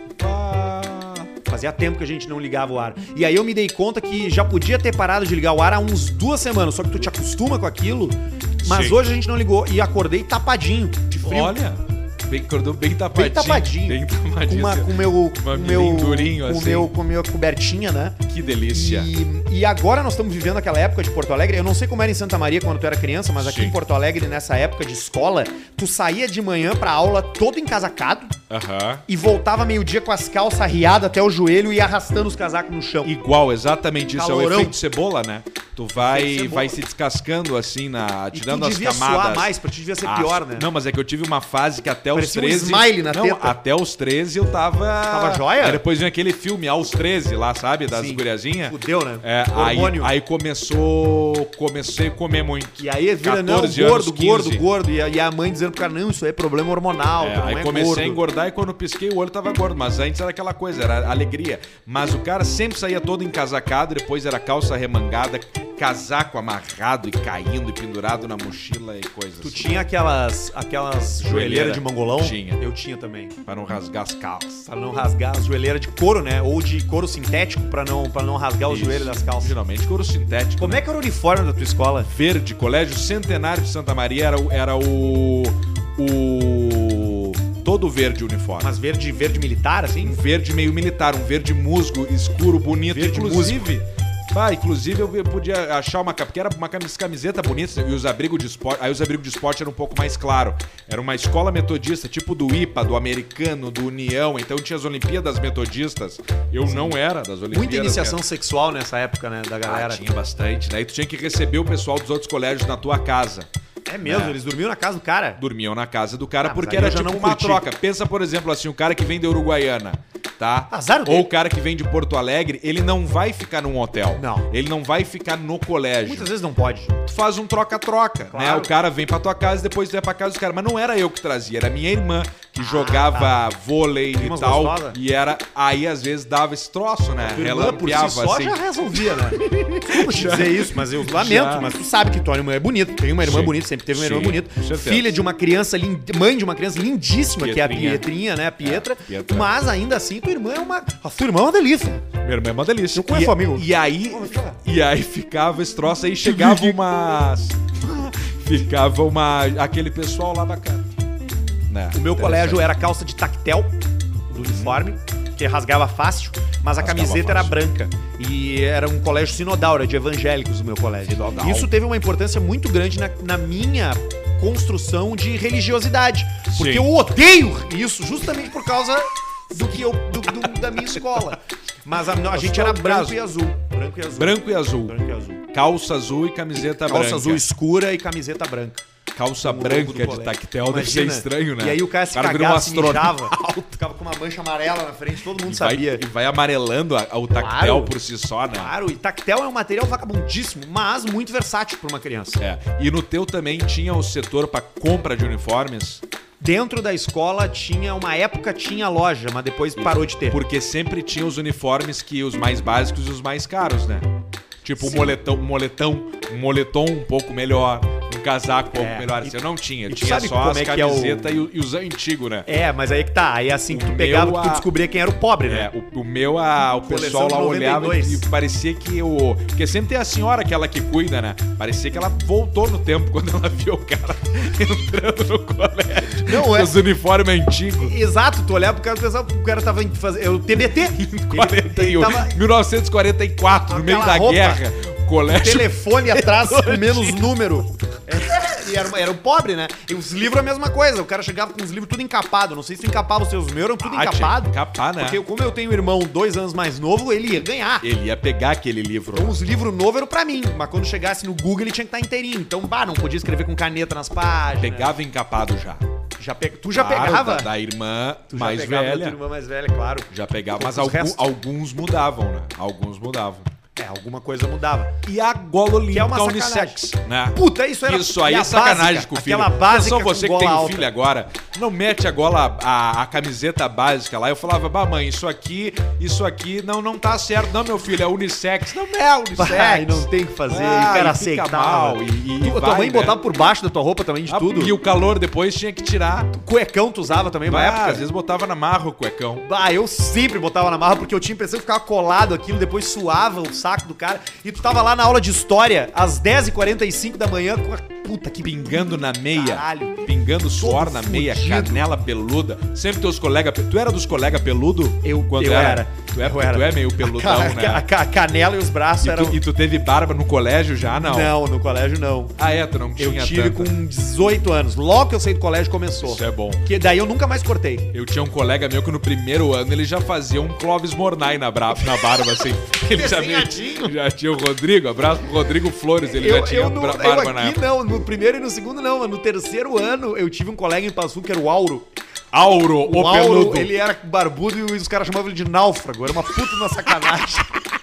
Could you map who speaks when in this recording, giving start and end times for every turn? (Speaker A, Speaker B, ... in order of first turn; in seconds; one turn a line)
Speaker A: 0.2-1.3
Speaker B: 1.5-11.6
Speaker A: 8.6-9.0
Speaker A: 11.2-16.9
Speaker B: 13.1-18.2
Speaker A: 18.3-19.1
Speaker B: 18.7-28.4
Speaker A: 23.4-23.8
Speaker A: 28.5-29.0
Speaker B: 29.1-33.1
Speaker A: 33.0-54.6
Speaker B: 34.1-34.8
Speaker B: 36.0-36.8
Speaker B: 38.3-40.7
Speaker B: 42.1-43.6
Speaker B: 45.1-45.8
Speaker B: 47.9-50.1
Speaker B: 52.8-58.2
Speaker A: 57.2-69.8
Speaker B: 69.4-73.3
Speaker A: 71.2-72.6
Speaker A: 73.4-74.7
Speaker B: 74.7-79.5
Speaker A: 78.7-80.8
Speaker B: 80.6-82.1
Speaker A: 82.0-88.7
Speaker B: 88.6-90.2
Speaker A: 90.0-108.2
Speaker B: 92.9-93.7
Speaker B: 106.7-107.0
Speaker B: 107.5-110.0
Speaker A: 109.6-113.5
Speaker B: 113.9-115.4
Speaker A: 114.0-114.4
Speaker A: 115.4-126.3
Speaker B: 116.4-117.7
Speaker B: 120.7-121.3
Speaker B: 124.1-124.5
Speaker B: 126.0-127.0
Speaker A: 127.0-141.7
Speaker B: 128.3-128.7
Speaker B: 132.6-133.4
Speaker B: 134.1-135.0
Speaker B: 137.2-152.1
Speaker A: 143.2-145.2
Speaker A: 147.4-148.1
Speaker A: 148.6-149.5
Speaker A: 152.2-160.9
Speaker B: 152.9-154.6
Speaker B: 156.2-156.8
Speaker A: 161.7-162.7
Speaker B: 161.9-163.7
Speaker B: 164.3-185.4
Speaker A: 164.5-164.8
Speaker A: 166.8-167.6
Speaker A: 171.1-171.7
Speaker A: 176.5-176.9
Speaker A: 182.2-183.2
Speaker A: 184.2-187.4
Speaker B: 186.6-188.8
Speaker A: 189.1-193.8
Speaker B: 189.4-196.0
Speaker A: 195.4-198.7
Speaker B: 197.4-197.9
Speaker B: 198.5-202.4
Speaker A: 202.4-206.0
Speaker B: 206.4-210.4
Speaker A: 209.8-214.1
Speaker A: 214.6-222.5
Speaker B: 214.8-215.2
Speaker B: 218.7-221.4
Speaker B: 222.5-225.7
Speaker A: 223.7-224.7
Speaker A: 225.5-238.0
Speaker B: 226.8-228.2
Speaker B: 236.2-236.8
Speaker B: 237.8-242.4
Speaker A: 240.9-247.3
Speaker B: 243.7-244.6
Speaker B: 245.3-257.9
Speaker A: 253.8-255.2
Speaker A: 257.8-259.4
Speaker B: 259.1-264.9
Speaker A: 264.6-265.9
Speaker B: 266.2-267.5
Speaker A: 266.7-269.2
Speaker B: 268.3-271.2
Speaker A: 270.1-273.5
Speaker B: 273.8-274.9
Speaker A: 275.0-293.2
Speaker B: 275.9-276.8
Speaker B: 277.3-280.9
Speaker B: 289.4-294.7
Speaker A: 294.3-296.3
Speaker B: 296.3-298.0
Speaker A: 297.5-299.5
Speaker B: 299.4-308.7
Speaker A: 308.4-317.9
Speaker B: 309.3-310.1
Speaker B: 310.6-311.9
Speaker B: 315.0-319.4
Speaker A: 319.0-321.4
Speaker B: 321.0-322.4
Speaker A: 322.4-323.7
Speaker B: 323.0-327.9
Speaker A: 326.0-326.6
Speaker A: 327.9-337.6
Speaker B: 332.1-333.9
Speaker B: 336.1-341.9
Speaker A: 342.3-343.7
Speaker B: 342.8-347.6